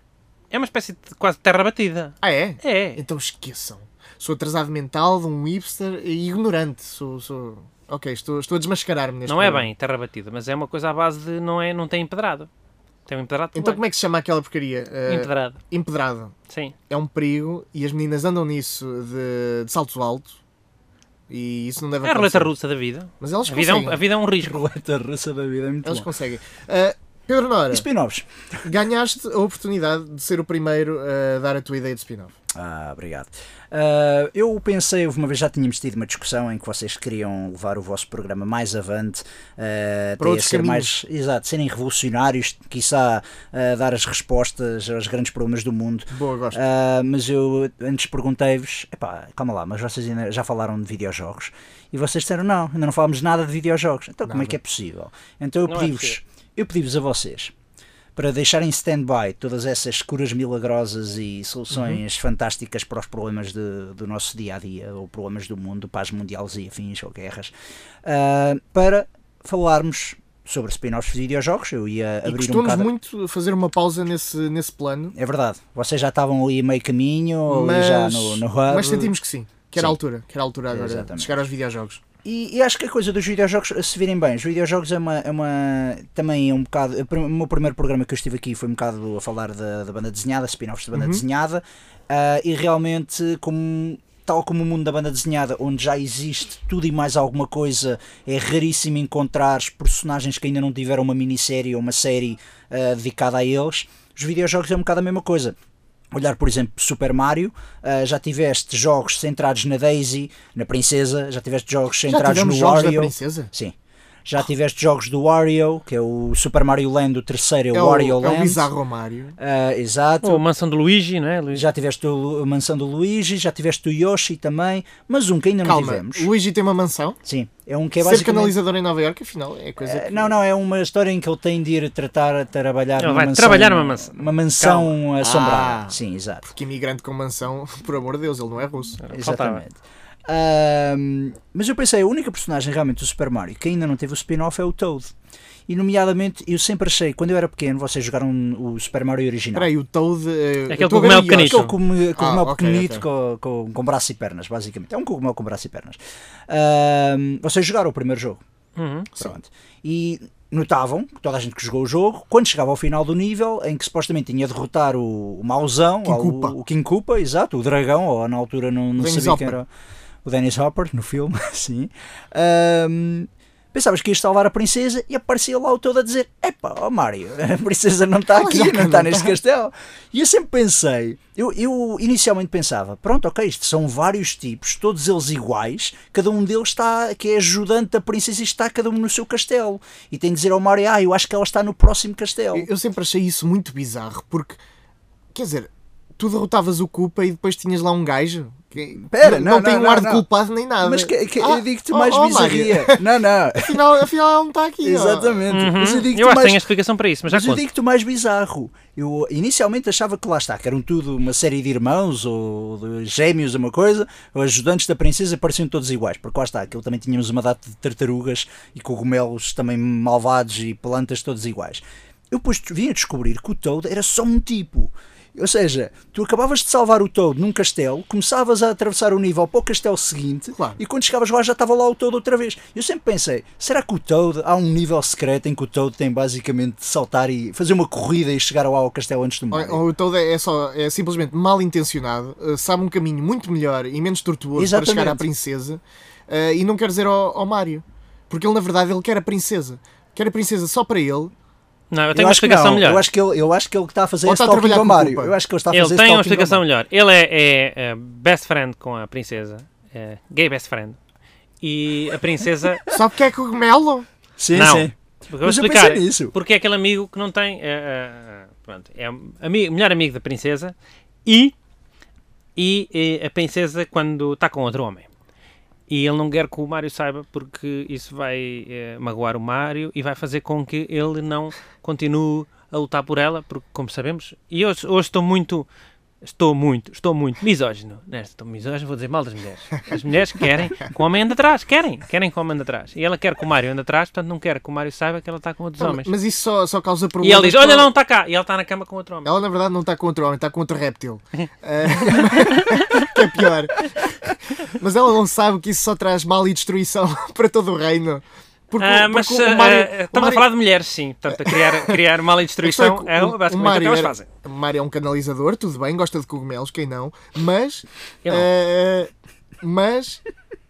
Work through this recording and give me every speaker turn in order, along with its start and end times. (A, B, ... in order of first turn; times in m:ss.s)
0:00.5-0:03.0 A
0:02.2-0:09.7 B
0:09.3-0:12.5 A
0:13.1-0:13.8 A
0:13.5-0:16.3 B
0:15.1-0:15.6 A
0:16.5-0:16.7 A
0:16.9-0:20.3 B
0:21.3-0:22.5 B
0:22.0-0:24.6 A
0:23.2-0:24.0 B
0:24.4-0:26.1 C
0:25.8-0:27.9 B
0:27.7-0:28.6 C
0:28.6-0:32.4 B
0:32.5-0:57.5 C
0:40.2-0:40.9 B
0:46.1-0:46.6 B
0:54.2-0:54.6 B
0:55.7-0:56.2 A
0:58.2-1:07.5 C
1:08.0-1:12.9 C
1:12.2-1:15.2 B
1:15.2-1:19.1 C
1:17.5-1:22.0 B
1:20.7-1:21.3 C
1:22.2-1:45.6 C
1:30.9-1:31.2 B
1:46.1-1:53.8 C
1:52.1-1:53.5 B
1:54.3-1:58.7 C
1:57.7-1:59.4 B
1:59.4-2:00.4 C
2:00.2-2:01.6 A
2:01.5-2:06.3 C
2:05.6-2:07.2 B
2:07.2-2:08.6 C
2:08.0-2:10.3 B
2:09.8-2:16.5 C
2:13.0-2:15.0 A
2:15.2-2:19.0 B
2:19.0-2:19.6 A
2:19.1-2:25.1 C
2:25.7-2:29.7 C
2:29.5-2:33.0 B
2:30.7-2:31.7 A
2:31.3-2:38.4 C
2:38.8-2:39.1 A
2:39.2-2:49.7 C
2:46.0-2:46.6 B
2:49.0-2:49.6 B
2:50.2-3:12.7 C
2:58.3-2:59.4 B
3:12.5-3:14.6 B
3:15.4-3:23.1 B
3:19.0-3:20.3 C
3:20.8-3:23.8 C
3:23.6-3:25.5 B
3:24.8-3:26.6 C
3:25.5-3:27.6 A
3:27.3-3:59.8 C
3:50.5-3:50.8 B
3:59.5-4:11.3 B
4:04.6-4:05.3 C
4:11.9-4:13.0 A
4:12.1-4:16.6 C
4:14.2-4:15.4 B
4:15.7-4:21.0 A
4:21.6-4:22.8 A
4:22.9-4:24.1 B
4:24.4-4:26.4 C
4:24.5-4:30.7 A
4:31.2-4:31.6 A
4:32.6-4:35.1 A
4:35.9-4:45.7 A
4:46.2-4:56.1 A
4:55.8-4:57.9 B
4:57.2-4:59.3 A
4:59.2-5:10.5 B
5:02.5-5:03.1 A
5:08.8-5:14.3 A
5:11.3-5:12.0 B
5:12.6-5:19.1 B
5:19.6-5:20.2 B